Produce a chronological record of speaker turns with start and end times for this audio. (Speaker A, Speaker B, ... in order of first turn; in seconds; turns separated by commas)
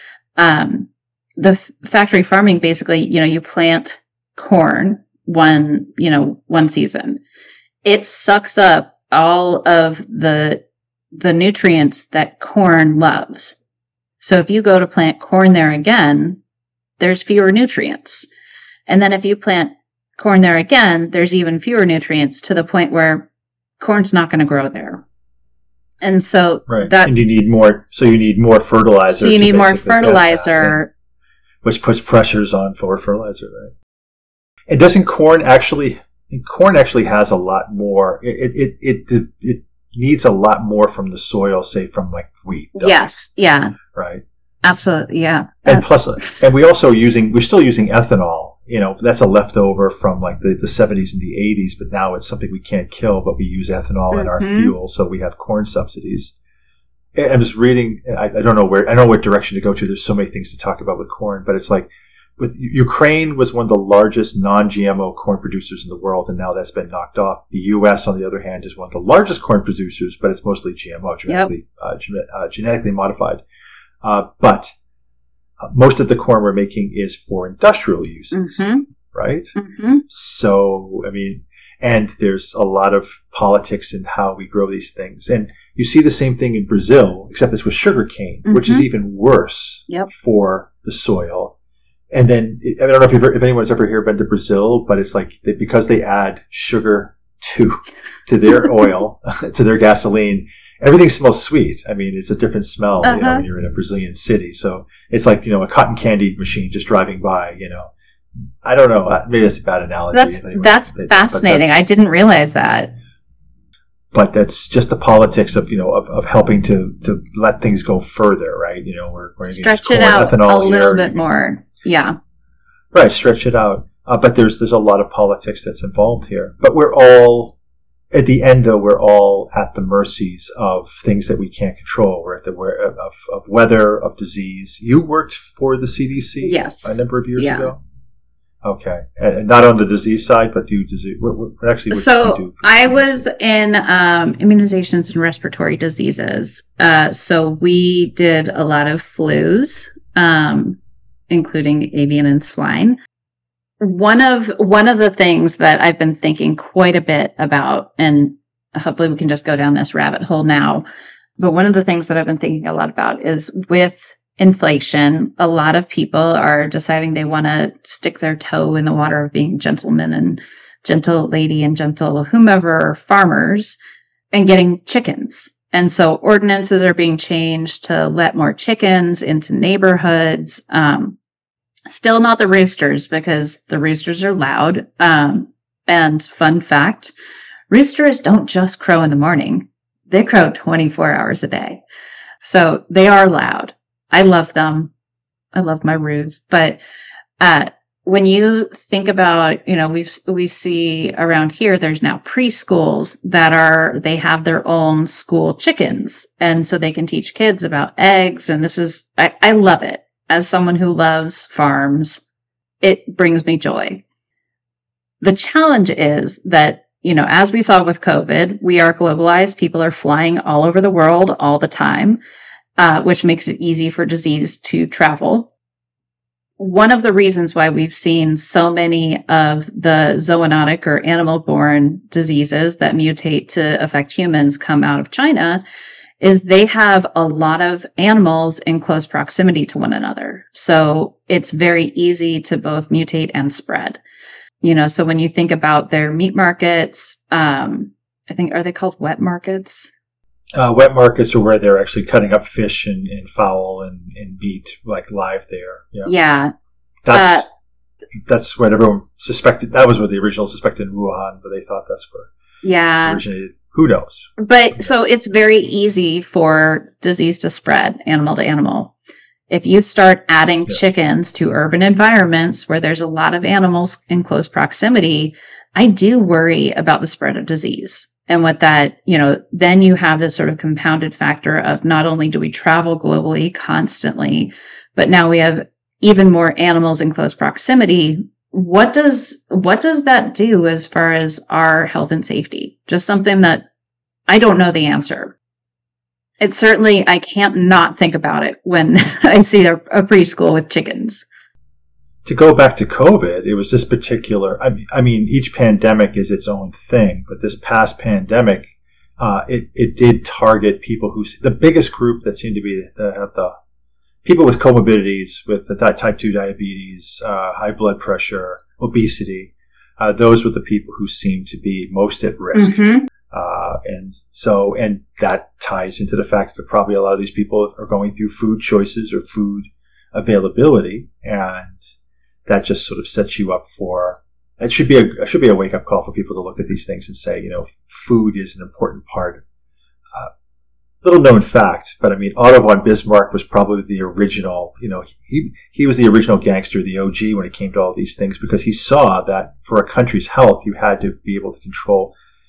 Speaker A: 0.4-7.2, Speaker A: 7.8-13.6, Speaker A: 14.2-16.4, Speaker A: 17.0-18.3, Speaker A: 18.9-23.3, Speaker A: 23.8-25.0, Speaker A: 26.0-27.1, Speaker B: 26.7-30.8, Speaker A: 29.1-30.9, Speaker B: 31.6-33.7, Speaker B: 34.7-43.1, Speaker A: 42.7-43.8, Speaker B: 43.9-44.2, Speaker A: 44.6-46.4, Speaker B: 45.6-56.3, Speaker A: 54.1-54.7, Speaker B: 57.1-73.4, Speaker B: 74.0-74.7, Speaker B: 75.6-79.5, Speaker A: 78.3-78.8, Speaker A: 79.5-80.0, Speaker B: 80.1-91.5, Speaker A: 88.5-88.9, Speaker B: 92.1-107.9, Speaker A: 103.0-103.4, Speaker B: 108.6-111.8, Speaker A: 110.1-112.9, Speaker B: 114.1-121.1, Speaker A: 119.5-122.2, Speaker B: 122.9-127.5, Speaker B: 128.1-137.8, Speaker A: 136.4-137.7, Speaker B: 138.6-143.2, Speaker A: 141.9-150.8, Speaker A: 151.3-153.0, Speaker A: 153.8-160.8, Speaker A: 161.4-173.8, Speaker A: 174.3-181.2, Speaker A: 181.9-187.1, Speaker A: 187.7-191.8, Speaker A: 192.4-194.9, Speaker A: 195.5-196.8, Speaker A: 197.4-212.2, Speaker A: 212.8-214.0, Speaker A: 215.2-222.2, Speaker A: 222.8-225.5, Speaker A: 226.6-235.6, Speaker A: 236.2-244.0, Speaker A: 244.6-249.9, Speaker B: 250.5-256.1, Speaker A: 256.0-256.5, Speaker B: 257.0-257.5, Speaker A: 257.1-257.4, Speaker B: 258.2-262.3, Speaker A: 262.6-263.2, Speaker B: 263.0-264.9, Speaker A: 264.4-268.9, Speaker A: 269.5-293.6, Speaker A: 294.3-295.3, Speaker A: 296.4-301.2, Speaker B: 302.2-313.5, Speaker B: 314.2-331.8, Speaker A: 322.5-323.1, Speaker B: 332.4-339.4, Speaker B: 341.0-352.1